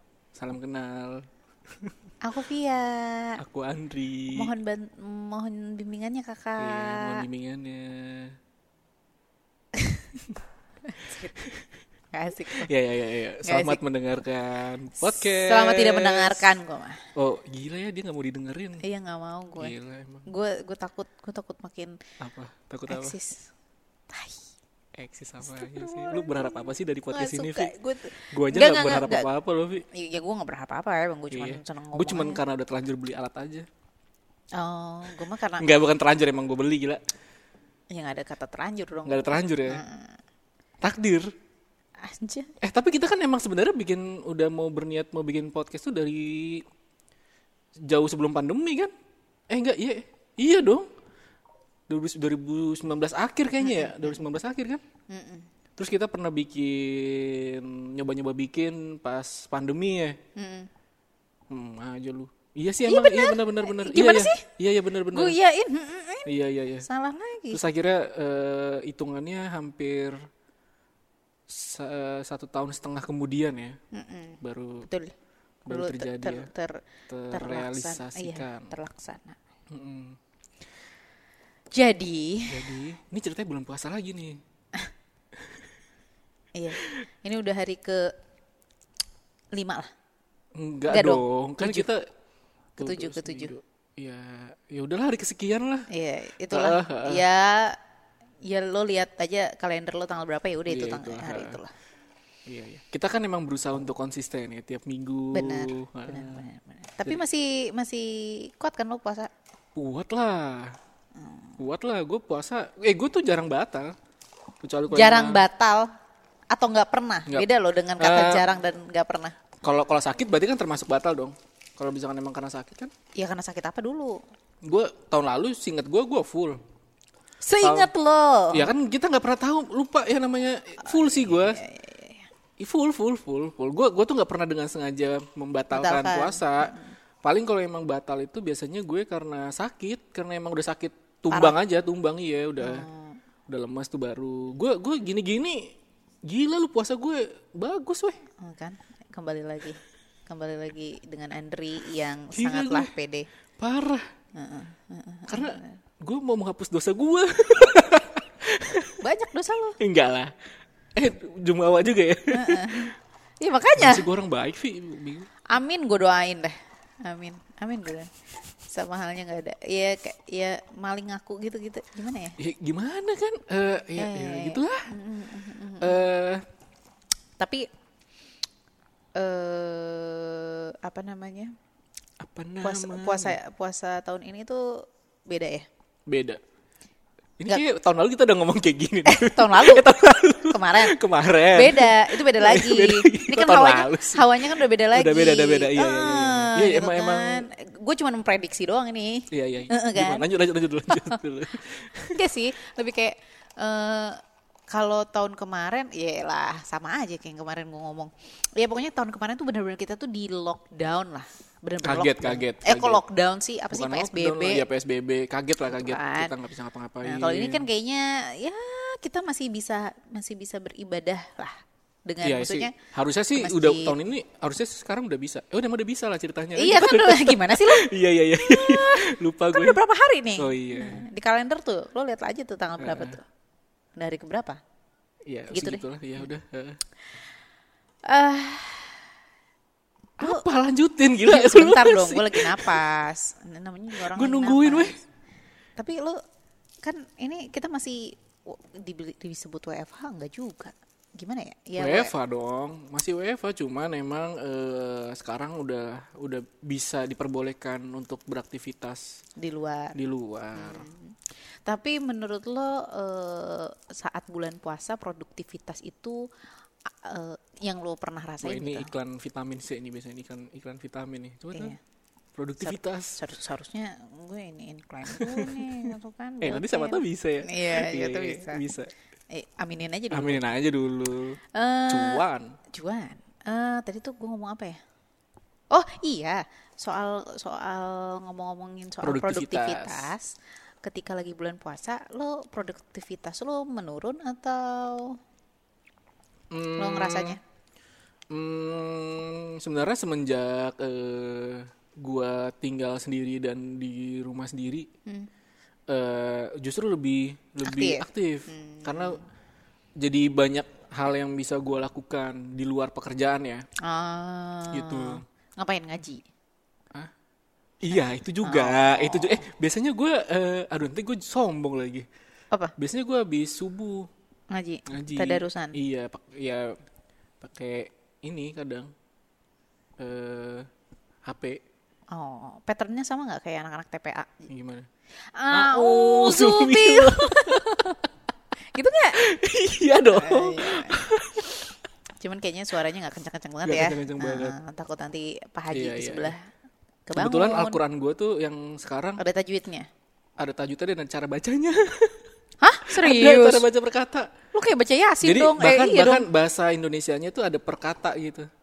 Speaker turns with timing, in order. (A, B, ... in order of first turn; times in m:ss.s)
0:00.4-0:02.0 A
0:02.2-0:03.4 B
0:03.4-0:04.5 A
0:04.4-0:07.2 B
0:06.6-0:08.4 A
0:09.8-0:10.2 B
0:10.9-0:11.3 B
0:11.4-0:11.6 A
0:12.1-0:12.7 B
0:12.5-0:16.5 A
0:13.4-0:13.8 B
0:15.0-0:17.0 B
0:17.2-0:18.8 A
0:18.8-0:19.8 B
0:19.6-0:20.3 A
0:20.3-0:22.0 B
0:22.2-0:23.2 A
0:22.9-0:23.5 B
0:24.1-0:24.5 B
0:25.0-0:27.7 A
0:25.4-0:29.3 B
0:28.3-0:29.9 A
0:29.9-0:32.4 B
0:31.3-0:33.7 A
0:34.6-0:35.7 B
0:35.6-0:37.0 A
0:37.9-0:40.2 B
0:39.1-0:39.8 A
0:40.8-0:41.3 A
0:42.0-0:42.5 B
0:42.6-0:46.7 A
0:47.9-0:48.9 A
0:49.5-0:50.9 A
0:51.9-0:54.8 A
0:53.6-0:54.2 B
0:55.1-0:55.5 B
0:55.8-1:00.2 A
1:00.4-1:00.7 B
1:01.5-1:05.4 A
1:02.8-1:04.5 B
1:05.1-1:06.3 B
1:06.3-1:06.9 A
1:06.8-1:07.6 B
1:07.5-1:10.2 A
1:11.5-1:13.8 A
1:13.9-1:15.2 B
1:14.4-1:14.9 A
1:15.6-1:16.5 A
1:15.7-1:19.4 B
1:17.1-1:18.7 A
1:19.7-1:20.2 A
1:21.7-1:22.8 B
1:22.5-1:24.4 A
1:25.4-1:25.7 A
1:26.6-1:28.1 B
1:29.5-1:29.9 B
1:30.6-1:32.1 A
1:30.9-1:31.9 B
1:32.8-1:35.9 A
1:32.8-1:33.6 B
1:35.9-1:37.8 B
1:36.5-1:37.2 A
1:38.4-1:41.7 B
1:40.7-1:41.6 A
1:42.5-1:46.4 A
1:45.3-1:49.3 B
1:49.8-1:50.8 A
1:51.2-1:51.6 B
1:51.6-1:54.0 A
1:54.6-1:55.4 A
1:54.9-1:55.9 B
1:56.5-1:59.4 B
1:58.0-1:58.4 A
1:59.6-2:02.9 A
2:03.2-2:04.2 B
2:04.6-2:06.6 A
2:07.4-2:08.7 B
2:07.6-2:07.9 A
2:08.5-2:11.6 A
2:10.8-2:12.3 B
2:12.6-2:22.9 A
2:15.7-2:16.9 B
2:22.6-2:23.2 B
2:23.5-2:28.2 A
2:28.4-2:33.3 B
2:32.3-2:32.9 A
2:33.6-2:34.1 A
2:34.4-2:35.8 B
2:35.3-2:39.0 A
2:39.0-2:39.8 B
2:39.8-2:40.4 A
2:41.0-2:42.9 A
2:42.3-2:44.1 B
2:43.8-2:45.3 A
2:45.5-2:52.4 B
2:52.4-2:54.9 A
2:54.0-2:56.1 B
2:55.8-2:56.4 A
2:57.4-2:57.7 B
2:59.2-3:01.5 B
3:02.2-3:03.4 A
3:02.6-3:05.7 B
3:06.1-3:06.4 A
3:07.4-3:17.5 A
3:09.1-3:09.9 B
3:10.5-3:11.0 B
3:11.5-3:20.3 B
3:19.3-3:22.2 A
3:20.9-3:21.2 B
3:22.2-3:34.6 B
3:31.8-3:33.0 A
3:33.7-3:37.7 A
3:35.7-3:36.3 B
3:37.0-3:42.8 B
3:42.2-3:49.8 A
3:43.4-3:44.0 B
3:46.6-3:53.2 B
3:50.4-3:51.0 A
3:52.8-3:53.2 A
3:54.0-3:54.6 B
3:55.3-3:56.8 A
3:55.5-3:55.8 B
3:58.1-3:59.1 B
4:00.2-4:02.8 A
4:01.2-4:05.0 B
4:03.9-4:05.0 A
4:05.8-4:06.2 B
4:06.8-4:12.1 B
4:11.8-4:19.2 A
4:19.4-4:20.0 B
4:20.0-4:20.9 A
4:20.6-4:26.3 B
4:26.9-4:28.9 B
4:28.4-4:31.7 A
4:32.4-4:33.2 A
4:32.6-4:38.6 B
4:35.1-4:35.9 A
4:36.4-4:38.9 A
4:39.3-4:40.4 B
4:40.1-4:42.5 A
4:41.5-4:42.2 B
4:42.7-4:44.8 B
4:45.7-4:55.2 B
4:49.0-4:50.1 A
4:56.5-4:57.4 A
4:56.8-4:57.4 B
4:58.3-5:04.9 A
5:05.9-5:09.2 A
5:07.6-5:09.2 B
5:10.0-5:13.6 A
5:13.8-5:16.2 B
5:14.7-5:15.2 A
5:17.8-5:22.1 A
5:17.9-5:19.5 B
5:22.8-5:24.1 A
5:24.5-5:25.8 B
5:24.9-5:26.8 A
5:27.4-5:28.9 A
5:30.0-5:30.7 A
5:31.2-5:31.6 A
5:32.1-5:34.5 B
5:34.5-5:34.9 A
5:35.2-5:38.0 B
5:35.5-5:37.9 A
5:38.7-5:39.2 B
5:39.2-5:41.7 A
5:40.1-5:41.0 B
5:42.2-5:46.5 B
5:43.6-5:44.6 A
5:45.7-5:46.3 A
5:47.1-5:47.8 B
5:47.2-5:49.2 A
5:49.2-5:49.9 B
5:50.4-5:52.3 A
5:52.6-5:53.6 B
5:52.8-5:54.3 A
5:54.5-5:56.3 B
5:55.2-5:58.5 A